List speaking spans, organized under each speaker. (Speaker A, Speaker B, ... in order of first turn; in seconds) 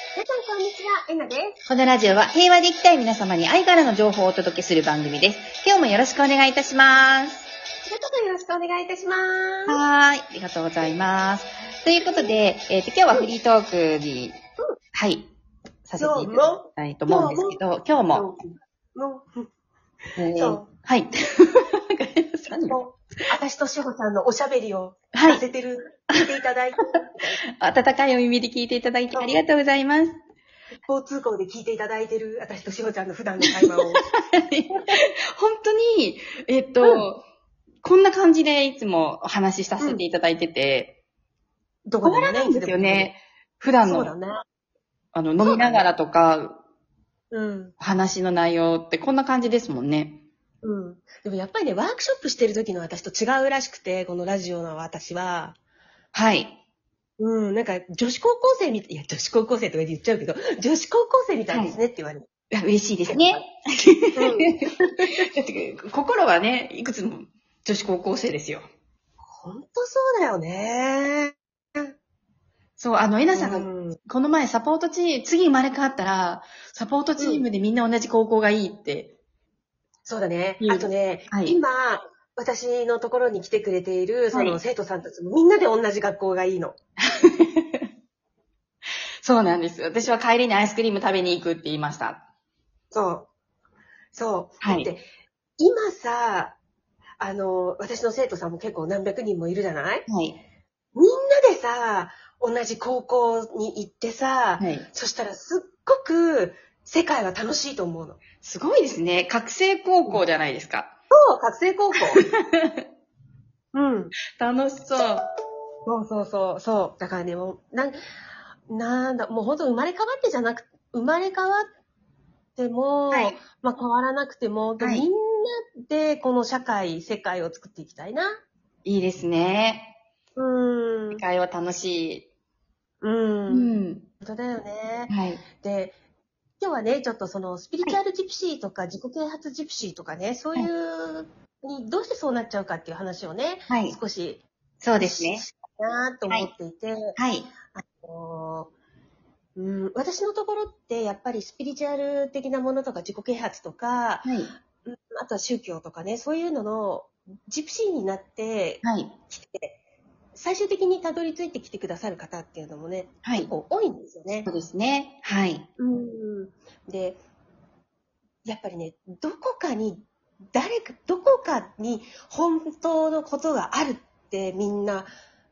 Speaker A: 0.2-1.6, 7.8-9.8, 16.0-19.5, 20.4-20.7, 22.7-27.4, 30.9-34.1, 41.9-43.1, 43.9-44.4, 45.4-45.9, 47.3-47.7, 50.6-55.6, 57.2-62.3, 64.2-65.2, 69.3-71.9, 73.3-74.0, 77.2-77.5, 80.0-86.8, 92.9-93.3, 94.1-95.1, 95.6-96.6, 97.2-100.1, 101.0-108.2, 111.1-112.2, 113.7-114.1, 115.9-118.0, 118.7-121.7, 122.6-128.3, 130.4-131.2, 133.0-135.9, 136.6-144.4, 145.0-147.2, 147.7-148.7, 149.6-154.3, 154.8-159.8, 160.3-164.5, 165.8-167.2, 168.4-175.1
Speaker B: 1.7-7.5, 9.7-14.4, 14.9-15.3, 15.8-18.2, 20.2-22.8, 25.1-25.4, 27.6-30.2, 34.1-37.2, 37.8-41.0, 42.0-44.1, 45.1-46.6, 47.8-50.2, 56.1-56.6, 62.5-68.7, 72.8-79.1, 80.6-81.6, 87.2-87.8, 89.2-92.2, 94.6-94.9, 100.1-100.4, 104.6-104.9, 108.4-110.9, 112.2-112.8, 114.4-115.2, 123.1-123.4, 124.8-125.0, 128.8-129.9, 131.1-132.3, 133.5-134.1, 135.1-135.4, 143.7-144.0, 144.8-145.4, 147.2-147.5, 154.2-154.5, 158.8-159.2, 163.2-163.5, 164.5-165.7